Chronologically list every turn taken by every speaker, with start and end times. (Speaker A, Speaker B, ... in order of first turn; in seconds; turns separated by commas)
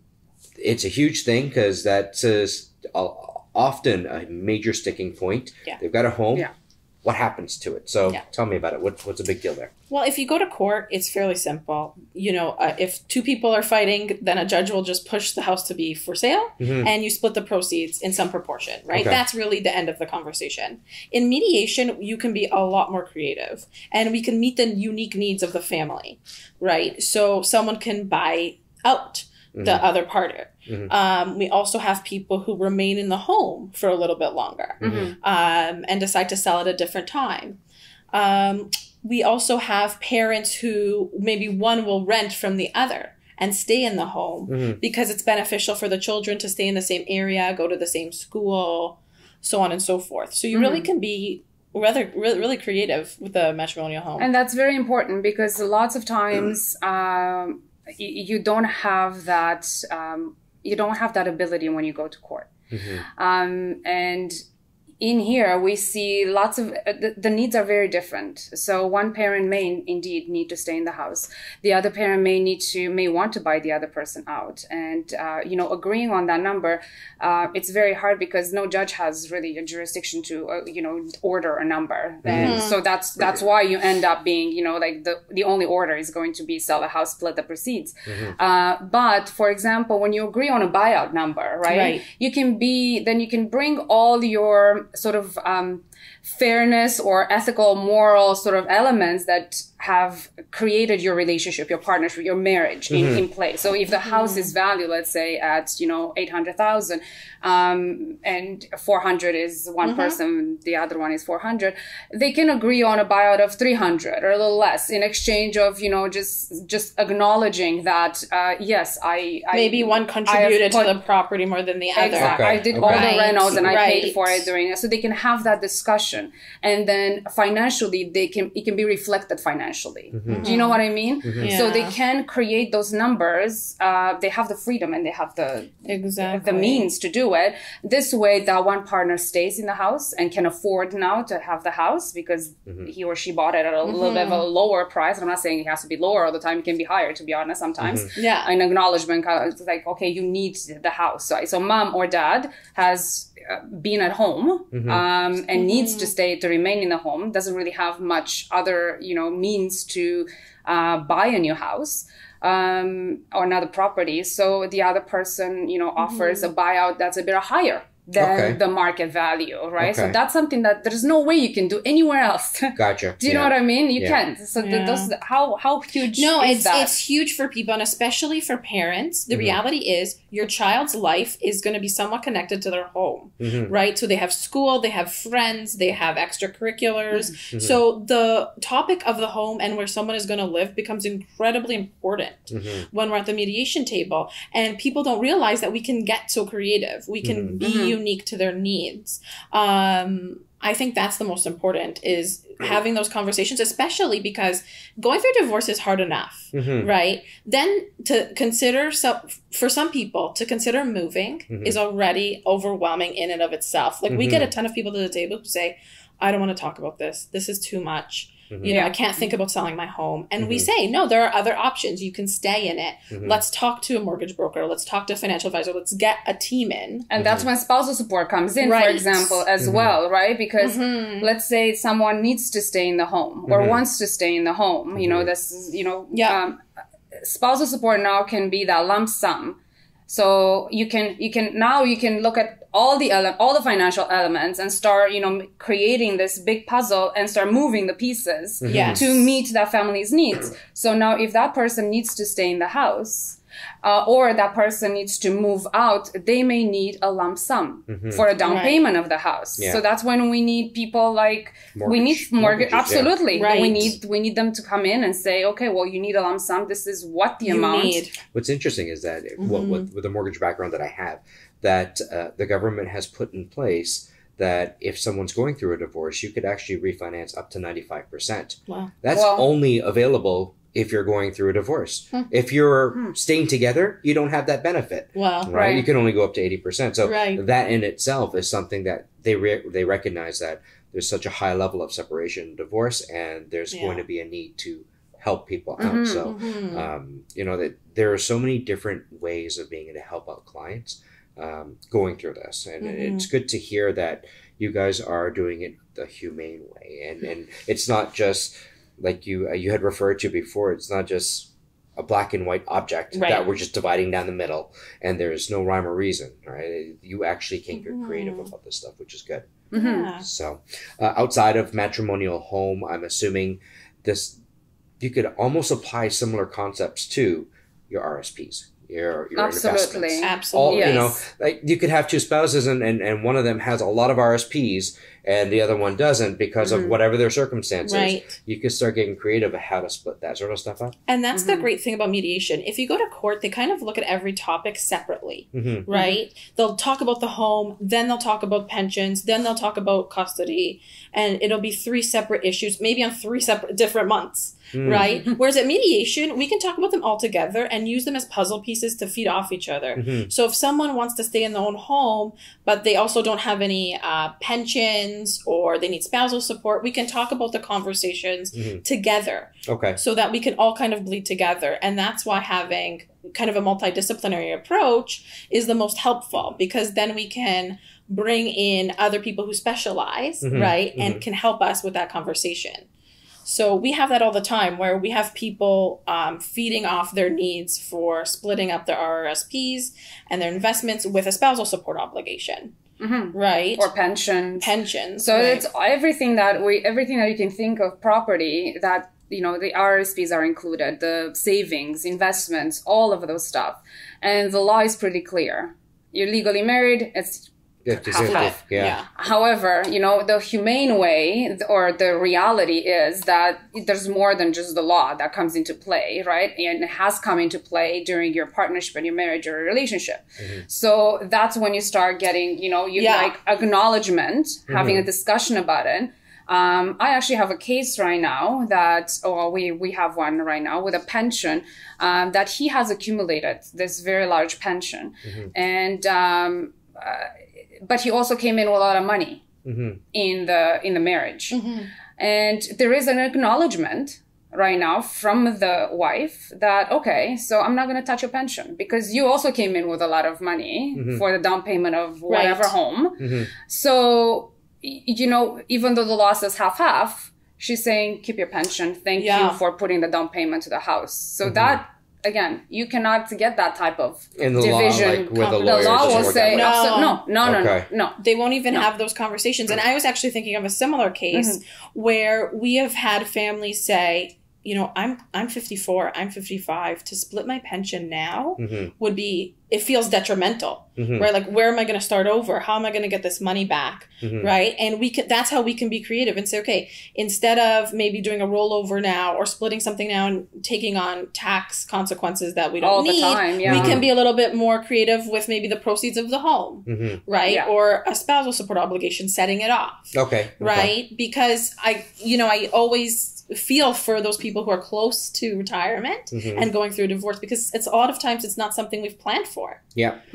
Speaker A: 0.6-6.5, Speaker A: 7.0-9.7, Speaker B: 9.9-37.6, Speaker A: 16.6-16.9, Speaker A: 18.9-19.2, Speaker A: 29.5-29.8, Speaker A: 30.7-30.9, Speaker A: 34.8-35.1, Speaker C: 34.8-35.1, Speaker B: 38.1-54.3, Speaker A: 44.5-44.8, Speaker C: 50.5-50.9, Speaker C: 54.2-62.5, Speaker A: 62.7-63.0, Speaker C: 63.1-64.4, Speaker C: 65.0-121.0, Speaker A: 82.2-82.6, Speaker B: 82.3-82.8, Speaker A: 88.1-88.3, Speaker B: 91.7-92.0, Speaker A: 102.9-103.2, Speaker B: 104.0-104.5, Speaker B: 109.8-110.2, Speaker B: 119.5-124.5, Speaker C: 121.9-176.9, Speaker A: 122.2-123.8, Speaker A: 130.1-130.5, Speaker B: 130.3-130.8, Speaker A: 131.2-131.5, Speaker B: 131.4-132.0, Speaker B: 135.8-136.9, Speaker A: 142.7-142.9, Speaker B: 143.8-144.5, Speaker A: 147.8-148.1, Speaker B: 148.1-148.5, Speaker A: 154.7-155.0, Speaker B: 155.5-156.1, Speaker B: 166.0-166.5, Speaker A: 168.2-168.6, Speaker A: 169.8-170.2, Speaker A: 172.8-174.2, Speaker B: 174.6-175.1, Speaker B: 176.1-227.1, Speaker A: 179.3-179.6, Speaker A: 183.4-183.7, Speaker C: 187.1-187.4, Speaker A: 187.5-187.8, Speaker A: 192.5-192.8, Speaker A: 197.2-197.6, Speaker C: 197.6-198.0, Speaker A: 206.5-206.9, Speaker A: 211.5-211.8, Speaker A: 214.1-214.5, Speaker A: 218.5-218.8, Speaker C: 218.6-219.3, Speaker A: 220.4-220.7, Speaker A: 223.1-223.4, Speaker C: 227.1-236.6, Speaker A: 227.2-227.5, Speaker B: 228.6-229.5, Speaker A: 229.6-230.0, Speaker B: 230.6-231.3, Speaker A: 233.5-233.8, Speaker A: 234.9-235.3, Speaker B: 236.1-236.4, Speaker C: 237.2-268.0, Speaker A: 248.6-249.0, Speaker B: 248.7-249.3, Speaker A: 257.9-258.2, Speaker B: 258.4-258.9, Speaker A: 261.7-263.2, Speaker B: 263.3-263.8, Speaker B: 267.4-268.2, Speaker A: 268.3-319.6, Speaker B: 269.4-269.9, Speaker B: 278.7-278.9, Speaker C: 279.1-279.5, Speaker B: 285.1-285.6, Speaker C: 285.5-285.9, Speaker B: 287.0-287.4, Speaker B: 293.7-294.1, Speaker C: 295.8-296.3, Speaker B: 295.8-296.9, Speaker B: 302.8-303.3, Speaker B: 313.1-313.5, Speaker B: 317.7-318.5, Speaker C: 319.7-320.1, Speaker B: 319.7-320.3, Speaker A: 320.2-324.4, Speaker A: 325.0-340.9, Speaker C: 329.3-331.1, Speaker B: 330.2-331.3, Speaker C: 336.6-337.0, Speaker B: 337.8-338.3, Speaker B: 341.1-382.9, Speaker C: 341.3-341.7, Speaker A: 345.5-345.9, Speaker C: 345.9-346.2, Speaker A: 354.7-355.1, Speaker C: 355.0-355.3, Speaker A: 359.9-360.3, Speaker A: 368.5-368.8, Speaker A: 369.7-370.0, Speaker A: 380.4-381.2, Speaker B: 383.4-392.8, Speaker C: 393.0-439.4, Speaker B: 393.3-393.9, Speaker B: 394.6-395.7, Speaker A: 407.8-409.0, Speaker B: 408.2-409.1, Speaker A: 420.4-420.6, Speaker B: 422.9-423.4, Speaker A: 424.7-425.1, Speaker A: 435.2-435.5, Speaker A: 439.6-440.0, Speaker C: 440.1-441.6, Speaker B: 441.5-441.9, Speaker C: 442.1-468.9, Speaker A: 450.9-451.2, Speaker B: 452.3-452.7, Speaker A: 453.2-453.5, Speaker B: 459.1-459.6, Speaker A: 461.4-461.8, Speaker A: 464.4-466.8, Speaker B: 465.4-467.3, Speaker A: 467.4-467.9, Speaker B: 468.2-509.8, Speaker C: 471.3-471.6, Speaker A: 478.6-478.9, Speaker A: 481.0-481.3, Speaker A: 484.2-484.5, Speaker C: 492.8-494.1, Speaker A: 493.6-494.1, Speaker A: 496.9-497.2, Speaker C: 497.4-497.7, Speaker A: 500.1-500.9, Speaker A: 506.3-506.7, Speaker A: 509.9-510.2